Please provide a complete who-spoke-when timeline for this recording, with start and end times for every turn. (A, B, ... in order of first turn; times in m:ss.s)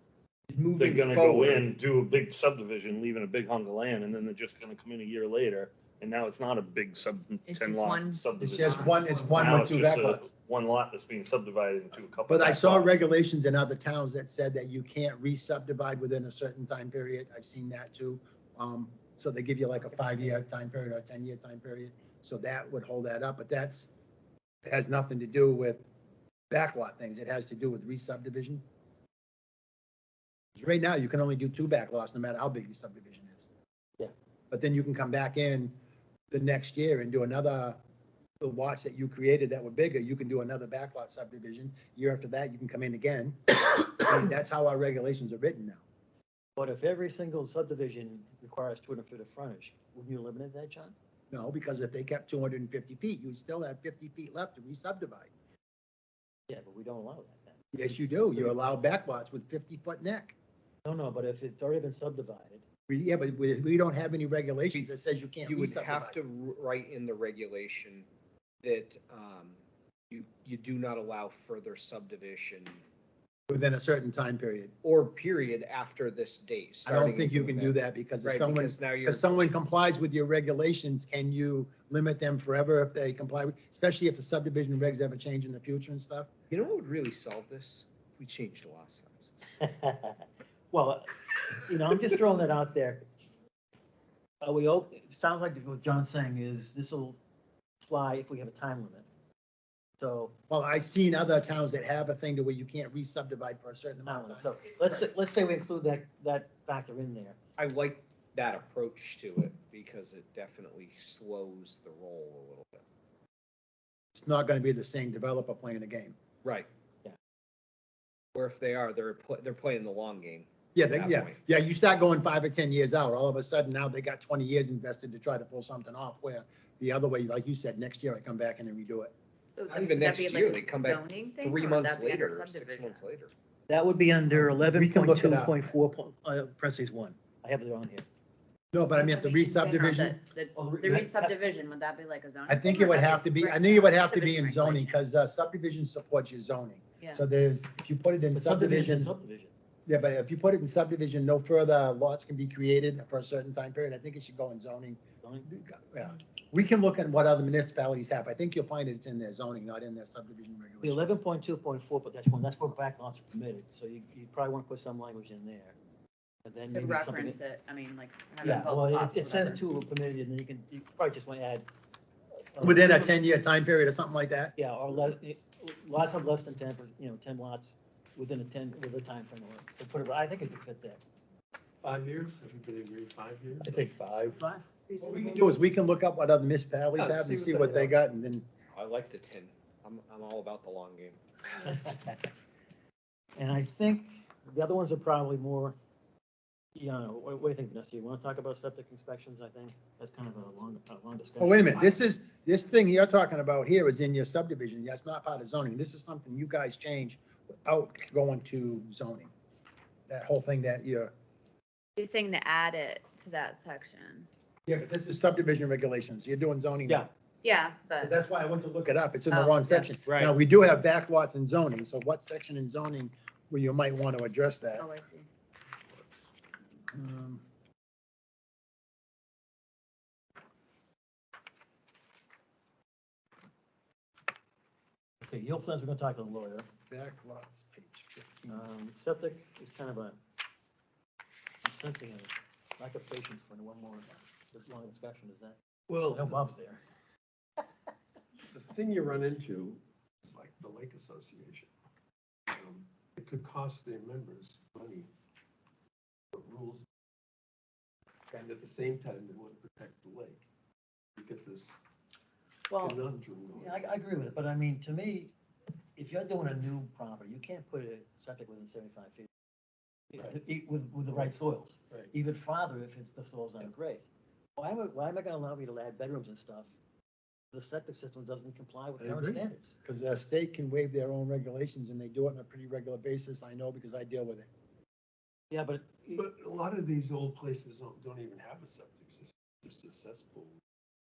0:00.5-0:01.7 A
0:00.8-0:12.9 B
0:07.5-0:09.4 C
0:08.4-0:10.3 D
0:12.3-0:23.9 D
0:24.6-0:25.8 D
0:26.5-0:28.6 D
0:30.6-0:33.5 D
0:34.5-0:35.7 D
0:36.3-0:37.8 D
0:38.4-0:45.8 D
0:46.6-0:51.0 E
0:51.3-0:55.3 D
0:56.5-0:58.6 E
0:57.7-1:00.4 D
1:00.8-1:02.6 E
1:02.9-1:06.2 D
1:05.4-1:08.1 A
1:08.6-1:12.8 A
1:13.5-1:14.7 D
1:14.8-1:19.6 A
1:16.9-1:26.3 D
1:26.5-1:29.6 A
1:29.6-1:33.0 E
1:34.4-1:37.2 E
1:37.8-1:39.1 E
1:40.0-1:40.3 E
1:40.5-1:44.5 D
1:44.0-1:47.4 E
1:47.6-1:52.8 A
1:54.1-1:56.2 D
1:56.4-1:56.7 A
1:58.3-2:01.4 A
2:00.7-2:09.1 D
2:09.6-2:13.0 C
2:09.7-2:13.3 A
2:13.7-2:18.1 E
2:14.3-2:15.7 D
2:18.7-2:20.2 D
2:18.9-2:25.0 C
2:20.5-2:21.3 E
2:22.5-2:29.1 D
2:28.3-2:29.5 E
2:29.9-2:41.2 D
2:35.2-2:35.5 E
2:40.8-2:45.8 E
2:46.4-2:47.4 E
2:46.7-2:49.6 C
2:48.4-2:51.7 E
2:52.5-2:53.1 E
2:52.6-2:54.5 D
2:54.6-3:01.0 E
3:01.8-3:03.9 F
3:03.6-3:04.4 B
3:04.4-3:04.7 E
3:05.0-3:08.4 D
3:05.0-3:05.6 F
3:06.9-3:08.0 F
3:08.7-3:11.2 A
3:13.4-3:15.8 E
3:16.7-3:22.0 E
3:21.4-3:29.3 D
3:30.1-3:31.1 D
3:32.0-3:34.3 C
3:34.7-3:37.0 D
3:37.4-3:38.1 C
3:38.0-3:44.9 D
3:39.3-3:39.9 C
3:40.1-3:40.3 A
3:44.7-3:45.3 C
3:46.9-3:47.4 D
3:55.2-3:56.7 E
3:56.9-3:58.6 D
3:58.5-4:00.2 E
4:01.6-4:05.6 E
4:05.9-4:06.4 F
4:06.1-4:06.8 E
4:08.5-4:11.7 F
4:12.5-4:15.1 F
4:16.3-4:16.9 F
4:18.3-4:20.4 F
4:21.2-4:21.8 F
4:22.7-4:25.3 E
4:22.8-4:23.9 F
4:26.0-4:29.3 E
4:30.1-4:34.0 E
4:34.6-4:36.8 E
4:37.5-4:39.8 E
4:39.0-4:39.4 F
4:39.8-4:44.5 D
4:45.5-4:46.2 E
4:46.1-4:50.6 F